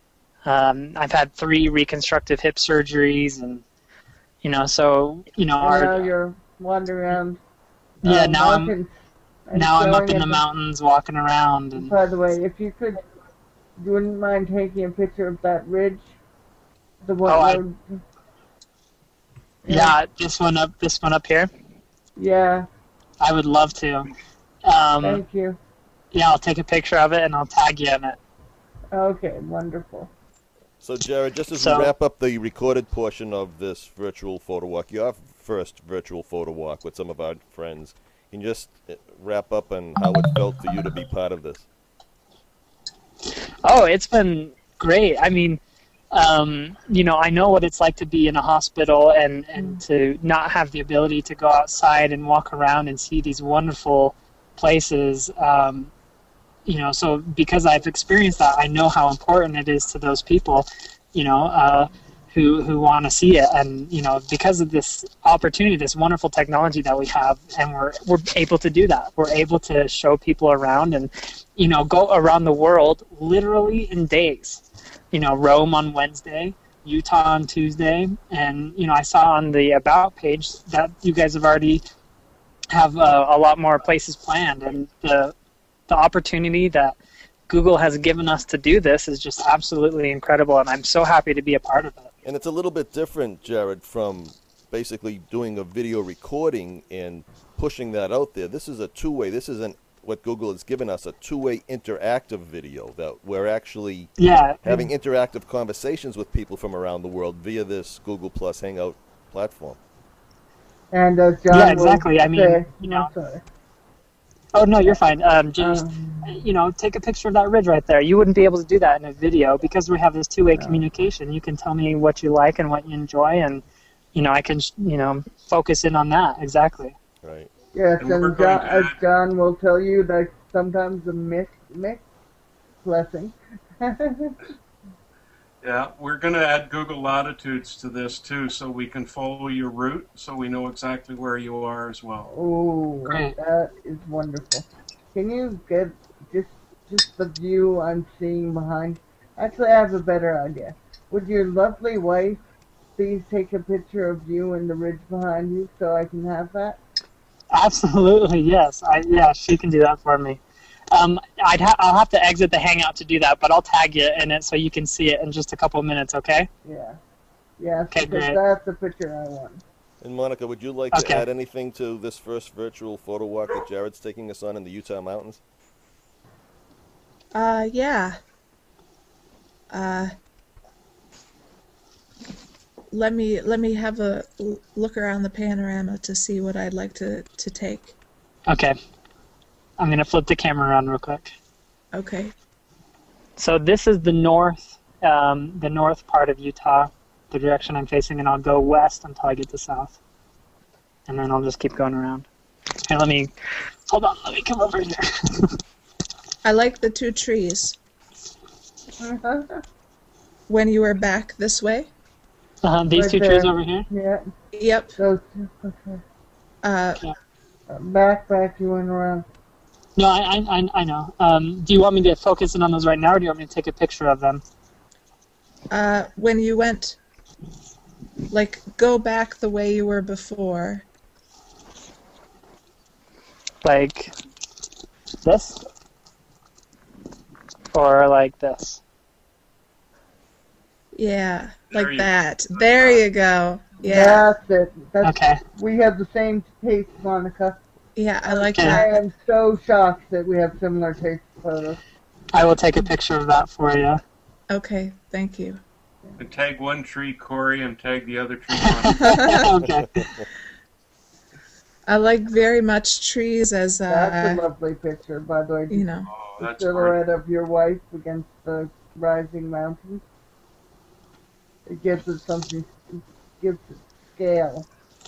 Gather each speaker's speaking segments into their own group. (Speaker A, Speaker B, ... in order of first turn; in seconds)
Speaker A: 0.4-3.6, 4.4-6.1, 8.0-8.7, 9.5-11.9, 17.2-17.6, 19.7-21.5, 23.2-24.1, 24.6-25.2, 26.1-28.2, 31.6-31.9, 43.6-45.6, 46.1-55.9, 56.6-81.8, 82.7-85.3, 85.9-87.0, 87.5-92.1, 104.2-104.9, 111.5-113.1, 114.5-127.0, 143.1-143.3, 157.5-166.5, 167.9-168.4, 170.9-171.2, 188.5-188.7, 189.8-191.3, 193.4-200.0, 201.1-202.3, 202.8-203.3, 203.9-205.6, 212.6-213.9, 219.9-224.4, 233.6-234.1, 235.2-235.6, 237.7-238.8, 245.0-245.4, 248.5-248.8, 252.3-254.0, 258.6-260.2
Speaker B: 5.6-7.4, 8.0-8.9, 9.5-10.4, 11.8-13.0, 13.8-16.1, 17.0-18.0, 19.6-19.9, 22.1-22.7, 25.0-25.6, 28.9-30.1, 110.9-113.4, 115.6-116.4, 120.5-120.8, 127.7-132.0, 132.8-134.4, 142.3-152.4, 153.0-156.8, 166.6-167.0, 167.6-169.6, 209.0-209.6, 212.9-214.3, 215.0-216.0, 217.7-219.2, 243.8-247.6, 248.3-251.8, 263.9-270.0, 271.7-274.7
Speaker C: 30.8-41.7, 92.2-104.1, 104.6-109.8, 127.2-127.5, 170.0-175.4, 259.6-260.3
Speaker D: 128.0-129.0, 135.6-142.3, 241.7-243.0, 256.2-259.4, 266.1-267.0
Speaker E: 177.3-178.2, 179.7-180.1, 182.9-187.9, 191.9-192.3, 206.4-207.8, 210.5-211.9, 214.5-215.0, 216.6-217.0, 225.7-227.0, 228.3-230.8, 240.9-244.3, 247.9-249.0, 254.5-255.6, 259.0-259.5, 261.9-264.4, 265.7-266.1